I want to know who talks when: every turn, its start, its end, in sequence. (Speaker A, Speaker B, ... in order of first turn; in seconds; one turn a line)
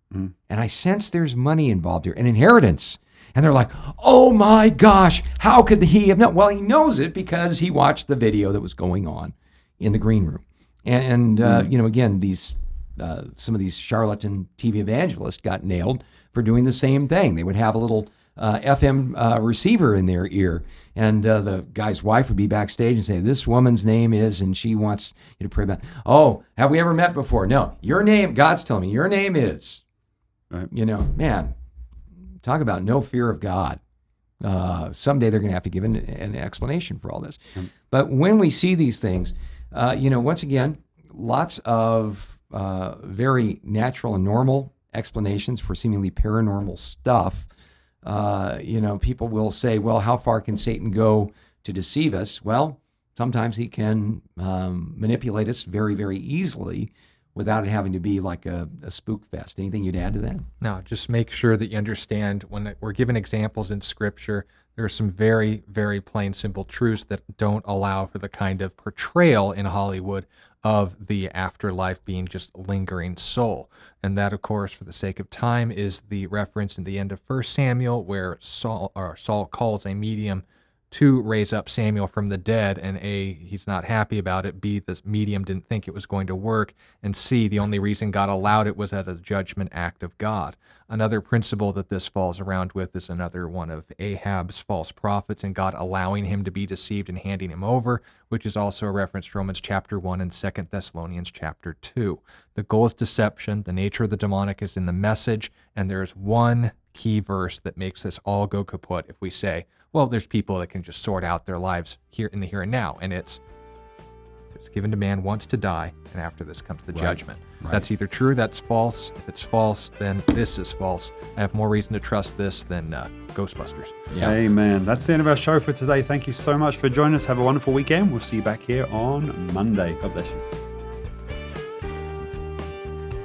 Speaker A: 0.5-29.8
Speaker B: 11.4-11.7
Speaker A: 30.7-31.6
Speaker A: 32.4-33.8
Speaker A: 34.4-47.5
Speaker A: 48.0-60.5
Speaker C: 60.6-113.4
Speaker C: 114.5-124.0
Speaker A: 124.1-124.4
Speaker B: 124.2-130.4